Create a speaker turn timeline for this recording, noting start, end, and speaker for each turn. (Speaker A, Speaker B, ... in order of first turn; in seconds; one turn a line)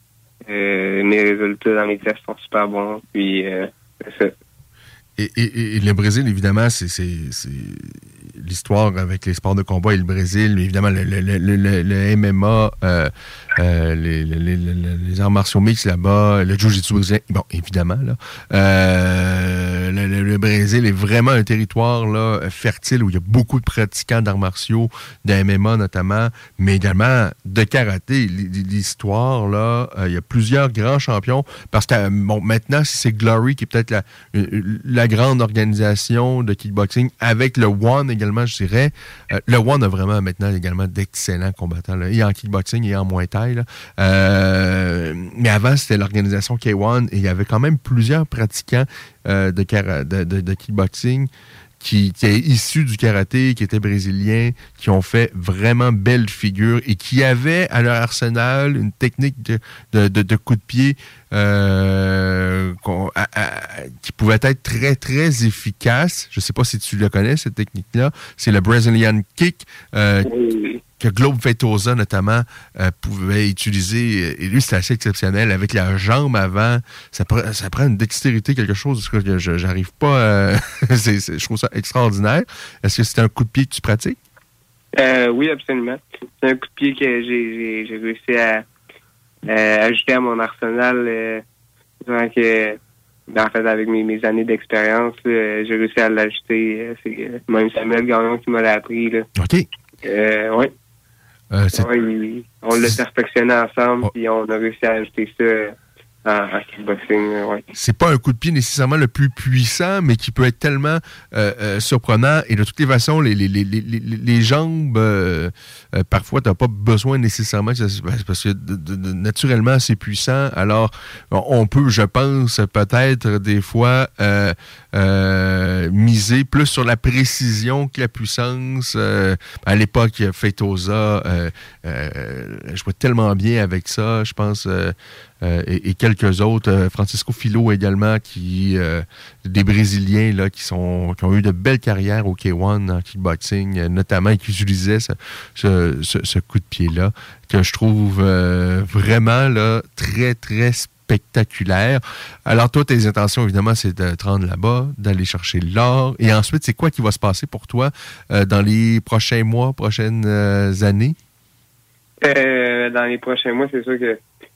Speaker A: 0.5-4.3
Speaker B: 5.2-70.3
Speaker A: 70.3-70.8
Speaker B: 71.0-84.2
Speaker A: 85.0-88.7
Speaker A: 89.5-91.4
Speaker A: 92.0-92.8
Speaker A: 93.3-99.3
Speaker B: 99.4-99.7
Speaker A: 100.0-100.7
Speaker B: 101.5-101.9
Speaker A: 101.7-107.7
Speaker B: 107.7-161.2
Speaker A: 162.2-164.2